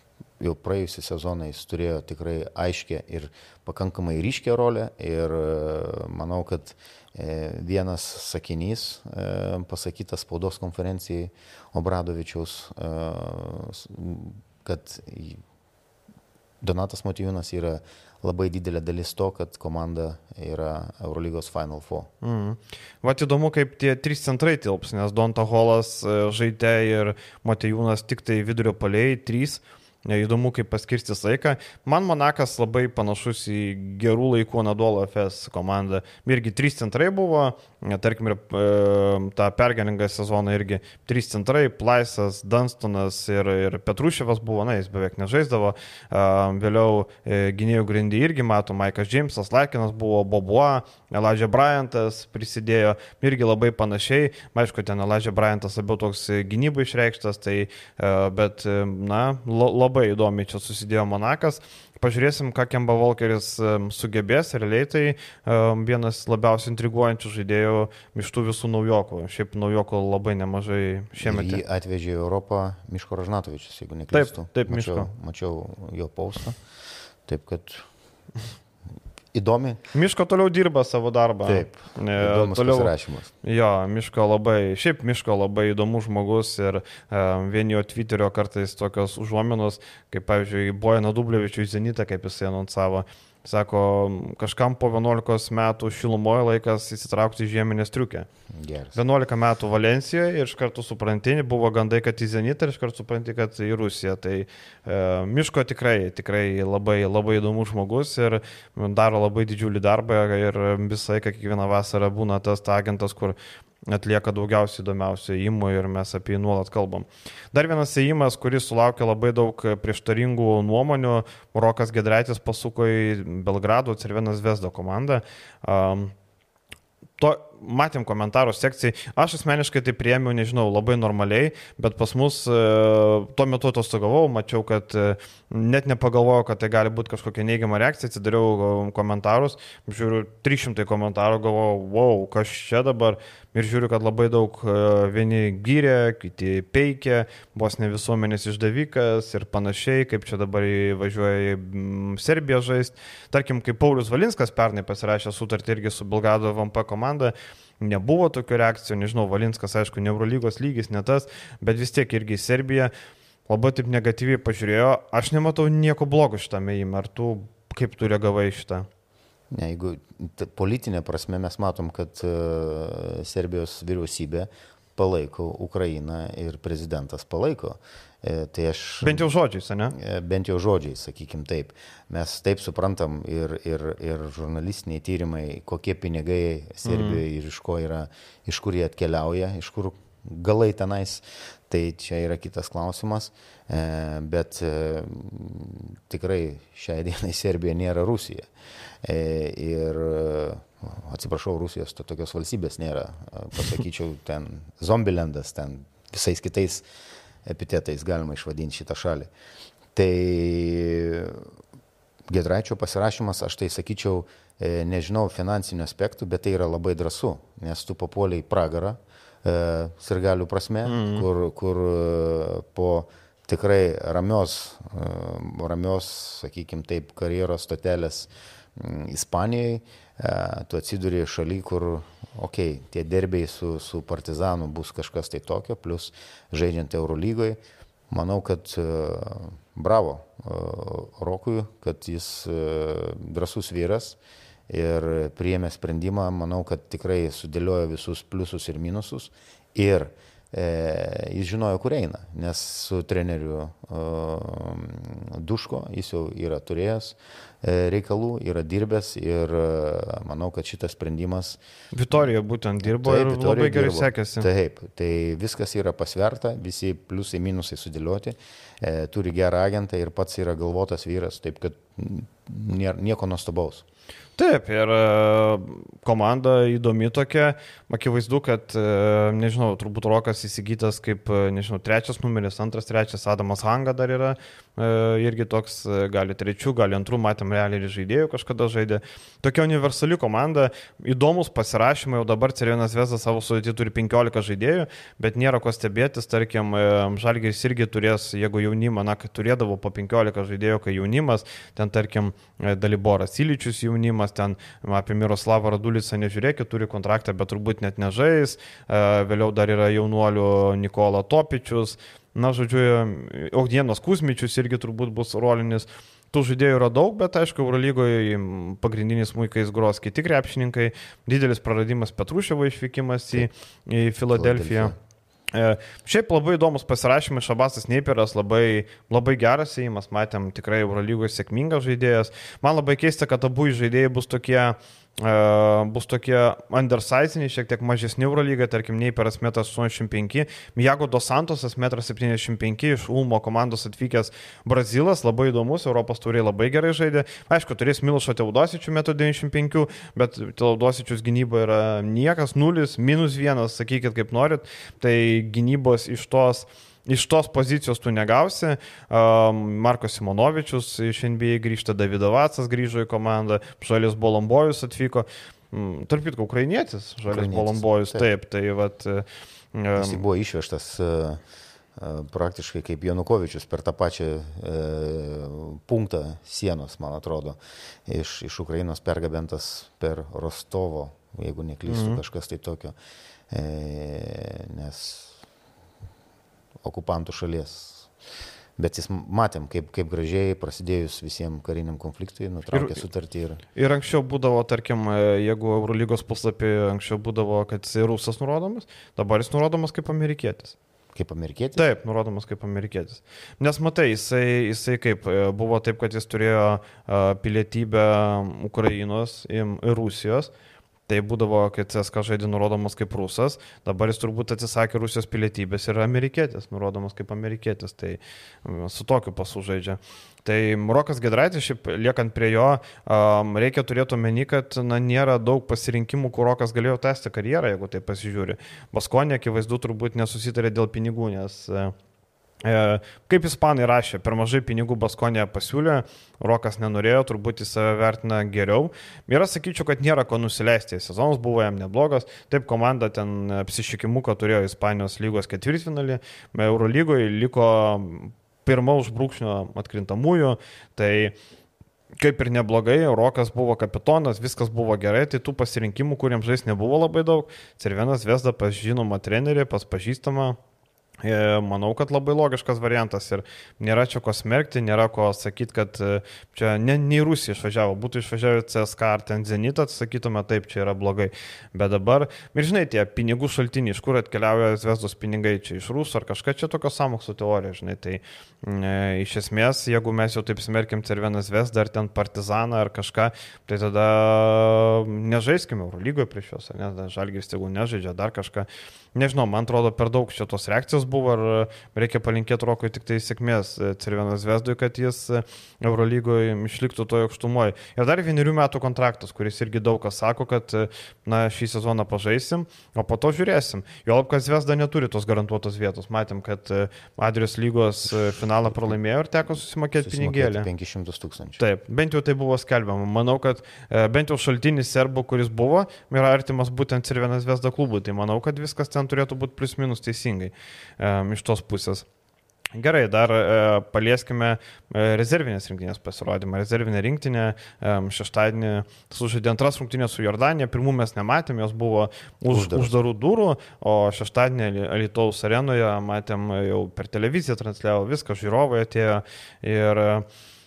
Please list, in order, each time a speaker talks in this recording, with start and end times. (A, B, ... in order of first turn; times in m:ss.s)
0:00.4-0:15.4 A
0:16.6-0:22.1 A
0:22.2-1:11.6 B
1:11.2-1:16.6 A
1:14.1-1:15.1 B
1:17.3-1:17.9 A
1:19.3-1:19.8 A
1:19.9-1:22.9 B
1:21.4-1:23.3 A
1:23.4-1:38.3 B
1:38.5-1:39.0 A
1:39.0-1:53.4 B
1:53.9-2:06.1 B
2:07.2-2:42.9 B
2:43.5-2:48.9 B
2:49.5-2:59.3 A
2:59.0-3:00.0 B
3:00.0-3:18.5 A
3:06.8-3:07.2 B
3:19.0-3:26.9 A
3:27.5-3:29.3 A
3:30.0-3:31.5 A
3:32.3-3:57.6 A
3:40.9-3:41.3 B
3:58.1-4:04.2 A
4:04.7-4:21.6 A
4:21.9-4:24.5 B
4:22.8-4:33.8 A
4:34.4-5:24.9 B
5:24.3-5:25.0 A
5:25.5-6:10.2 B
6:07.3-6:08.3 A
6:10.0-6:11.4 A
6:12.0-6:23.0 A
6:21.9-6:22.2 B
6:23.5-6:25.4 A
6:26.8-6:28.1 A
6:28.8-6:33.6 A
6:32.7-6:33.0 B
6:33.8-6:40.8 B
6:41.2-6:41.9 A
6:41.8-6:50.5 B
6:51.1-7:11.9 B
7:12.6-7:31.4 B
7:32.2-7:40.6 B
7:41.2-8:30.7 B
8:28.1-8:29.0 A
8:30.0-8:31.6 A
8:31.6-8:42.1 B
8:42.8-9:00.3 B
8:52.5-8:52.9 A